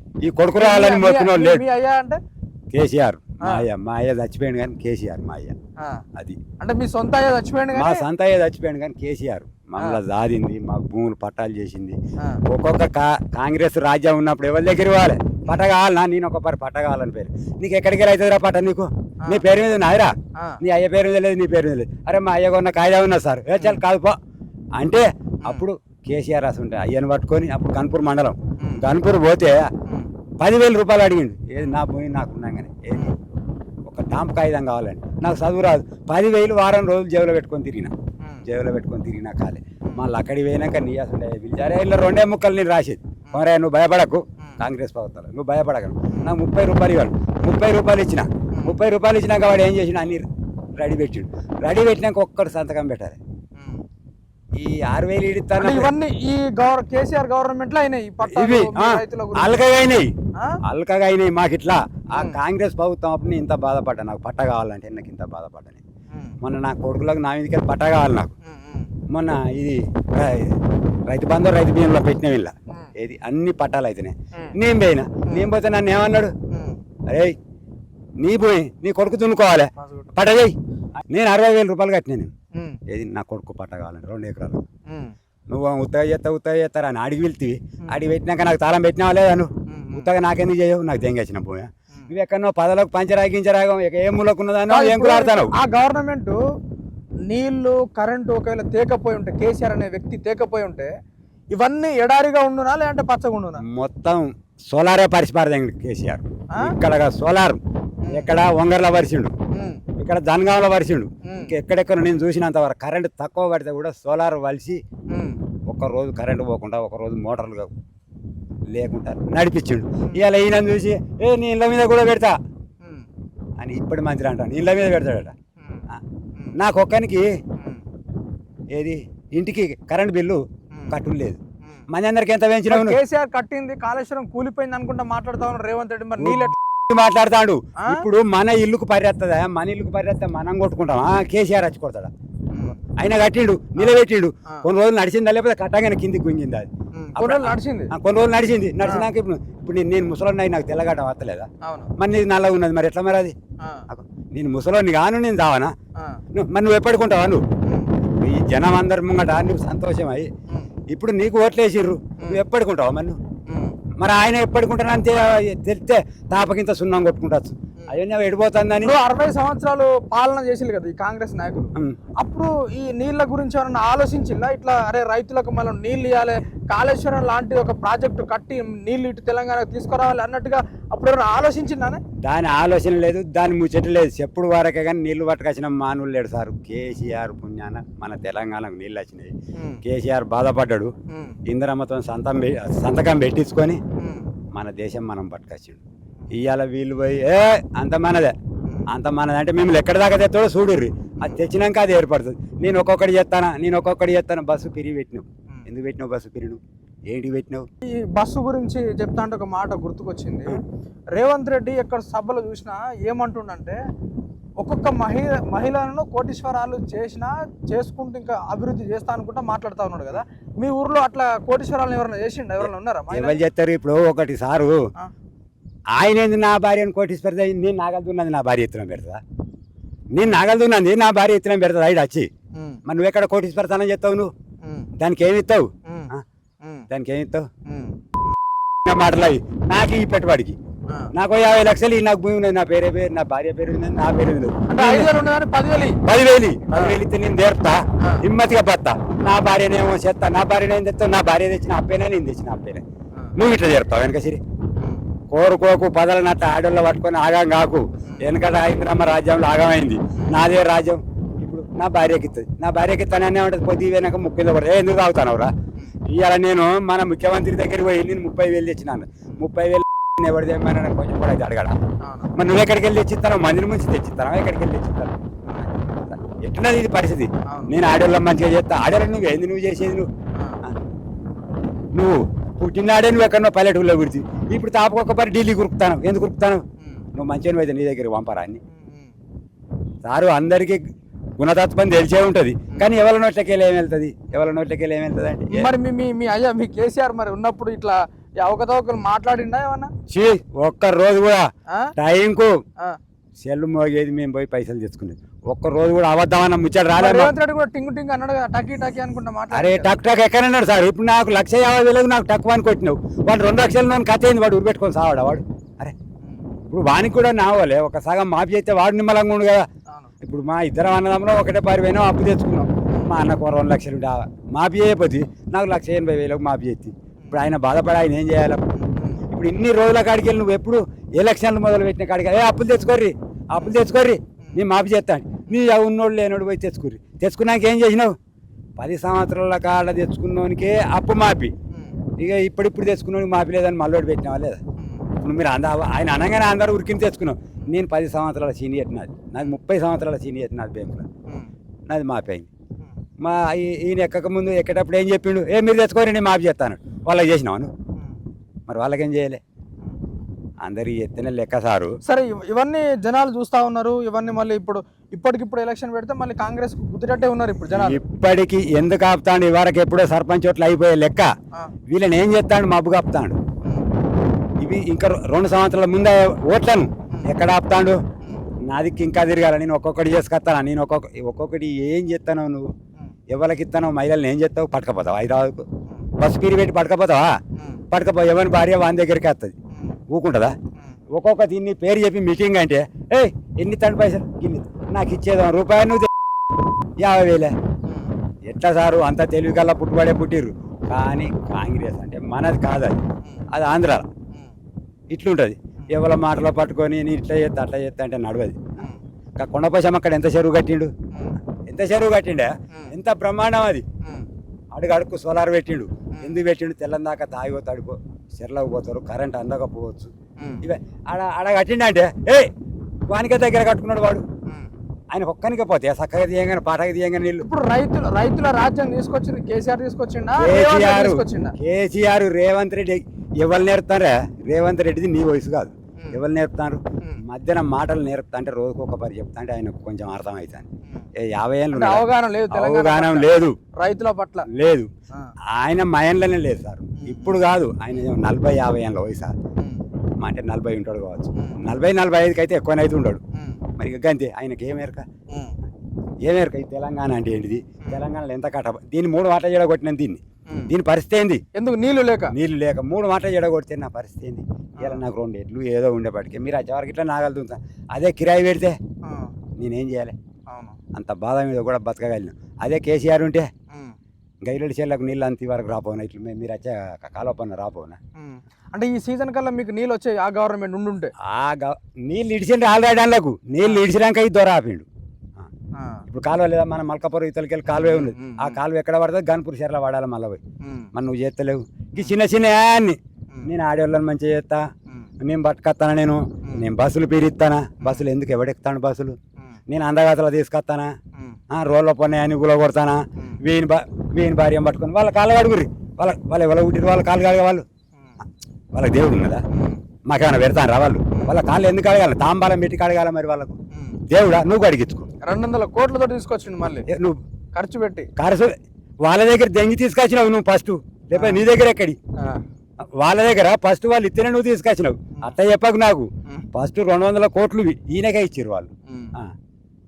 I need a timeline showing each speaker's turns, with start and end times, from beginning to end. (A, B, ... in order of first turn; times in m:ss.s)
0:00.2-0:01.6 A
0:00.6-0:02.2 B
0:02.7-0:05.5 A
0:05.8-0:06.0 B
0:06.6-0:08.0 B
0:07.7-0:24.2 A
0:24.8-0:29.7 A
0:30.4-0:33.2 A
0:33.9-0:37.9 A
0:38.4-0:50.2 A
0:50.8-0:53.2 A
0:54.6-0:55.9 A
0:55.6-0:59.6 B
0:58.2-1:00.1 A
1:00.6-1:05.8 A
1:06.4-1:08.3 A
1:08.4-1:08.9 B
1:09.1-1:16.3 A
1:16.5-1:16.8 B
1:17.1-1:17.4 A
1:18.2-1:20.5 A
1:19.8-1:20.1 B
1:21.1-1:22.3 A
1:22.5-1:22.8 B
1:22.9-1:24.6 A
1:24.8-1:25.1 B
1:25.5-1:35.5 A
1:29.7-1:30.1 B
1:34.7-1:36.4 B
1:37.3-1:40.9 B
1:41.5-1:43.6 B
1:43.6-1:49.3 A
1:49.5-1:49.8 B
1:50.0-1:54.8 A
1:51.2-1:51.5 B
1:55.1-1:55.4 B
1:55.7-1:57.7 A
1:58.7-2:02.3 A
2:03.6-2:05.3 A
2:06.6-2:07.3 A
2:07.6-2:07.8 B
2:08.7-2:13.0 A
2:12.7-2:16.6 B
2:16.2-2:22.1 A
2:17.8-2:18.0 B
2:22.5-2:22.8 B
2:22.8-2:33.3 A
2:27.0-2:27.9 B
2:28.8-2:29.1 B
2:31.6-2:31.9 B
2:33.9-2:35.7 A
2:36.3-2:37.4 A
2:37.6-2:37.9 B
2:38.0-2:40.3 A
2:40.9-2:43.2 A
2:43.5-2:43.8 B
2:44.0-2:48.9 A
2:48.8-3:02.0 B
3:02.2-3:10.9 A
3:09.6-3:09.8 B
3:11.1-3:11.4 B
3:11.4-3:13.8 A
3:14.0-3:14.3 B
3:14.5-3:18.3 A
3:18.9-3:27.6 A
3:27.8-3:30.6 B
3:31.1-3:33.8 B
3:34.6-3:43.4 B
3:42.6-3:44.8 A
3:45.9-3:49.2 A
3:50.1-3:52.3 A
3:52.5-3:52.8 B
3:52.8-3:54.3 A
3:54.6-3:54.9 B
3:55.0-3:56.2 A
3:55.8-3:56.8 B
3:56.9-3:57.5 A
3:57.6-3:58.0 B
3:58.7-4:00.6 A
4:01.1-4:05.1 A
4:04.7-4:06.0 B
4:06.0-4:12.8 A
4:06.7-4:07.0 B
4:13.4-4:14.4 A
4:15.3-4:25.5 A
4:18.1-4:18.3 B
4:26.1-4:31.7 A
4:32.0-4:32.3 B
4:32.3-4:40.1 A
4:37.5-4:37.7 B
4:40.3-4:40.6 B
4:41.9-4:46.6 A
4:47.1-4:48.6 A
4:48.7-4:49.1 B
4:50.0-4:50.8 A
4:51.4-4:55.7 A
4:55.5-4:59.9 B
5:00.1-5:02.5 A
5:03.4-5:07.3 A
5:06.9-5:09.9 B
5:09.5-5:15.9 A
5:16.7-5:19.6 A
5:20.2-5:28.6 A
5:28.8-5:29.2 B
5:29.3-5:38.1 A
5:38.8-5:41.5 A
5:42.2-5:44.6 A
5:45.2-5:51.0 A
5:51.9-5:52.5 A
5:53.2-5:57.7 A
5:58.7-5:59.4 A
6:00.6-6:02.0 A
6:02.0-6:08.0 B
6:07.7-6:11.3 A
6:11.9-6:13.4 A
6:14.6-6:18.0 A
6:18.6-6:22.7 A
6:23.3-6:25.7 A
6:26.2-6:27.4 A
6:27.6-6:27.8 B
6:27.9-6:29.5 A
6:30.1-6:30.5 A
6:31.1-6:36.1 A
6:37.0-6:37.5 A
6:38.5-6:43.0 A
6:43.5-6:44.1 A
6:45.1-6:48.8 A
6:49.4-6:50.9 A
6:51.7-6:53.8 A
6:54.7-7:02.5 A
7:00.4-7:00.6 B
7:03.1-7:04.2 A
7:05.1-7:07.4 A
7:07.4-7:11.5 B
7:10.4-7:23.6 A
7:21.7-7:24.5 B
7:24.5-7:24.9 A
7:25.5-7:29.3 A
7:27.0-7:27.4 B
7:30.2-7:33.2 A
7:33.8-7:35.0 A
7:36.2-7:41.4 A
7:41.5-7:42.3 B
7:42.3-7:48.8 A
7:49.0-7:49.3 B
7:49.6-7:50.1 A
7:50.5-7:50.8 B
7:50.9-7:53.5 A
7:53.7-7:54.0 B
7:54.4-7:58.0 A
7:58.2-8:01.1 B
8:01.2-8:04.8 A
8:05.7-8:06.0 B
8:06.1-8:10.4 A
8:07.9-8:08.6 B
8:10.6-8:10.9 B
8:10.9-8:14.6 A
8:15.2-8:19.2 A
8:19.7-8:20.9 A
8:21.5-8:27.6 A
8:28.7-8:29.4 A
8:29.5-8:29.8 B
8:30.1-8:33.6 A
8:33.7-8:34.0 B
8:34.1-8:35.1 A
8:35.2-8:36.8 B
8:36.9-8:37.2 A
8:37.5-8:38.1 B
8:38.2-8:42.0 A
8:41.1-8:41.4 B
8:43.0-8:49.3 A
8:48.9-8:49.1 B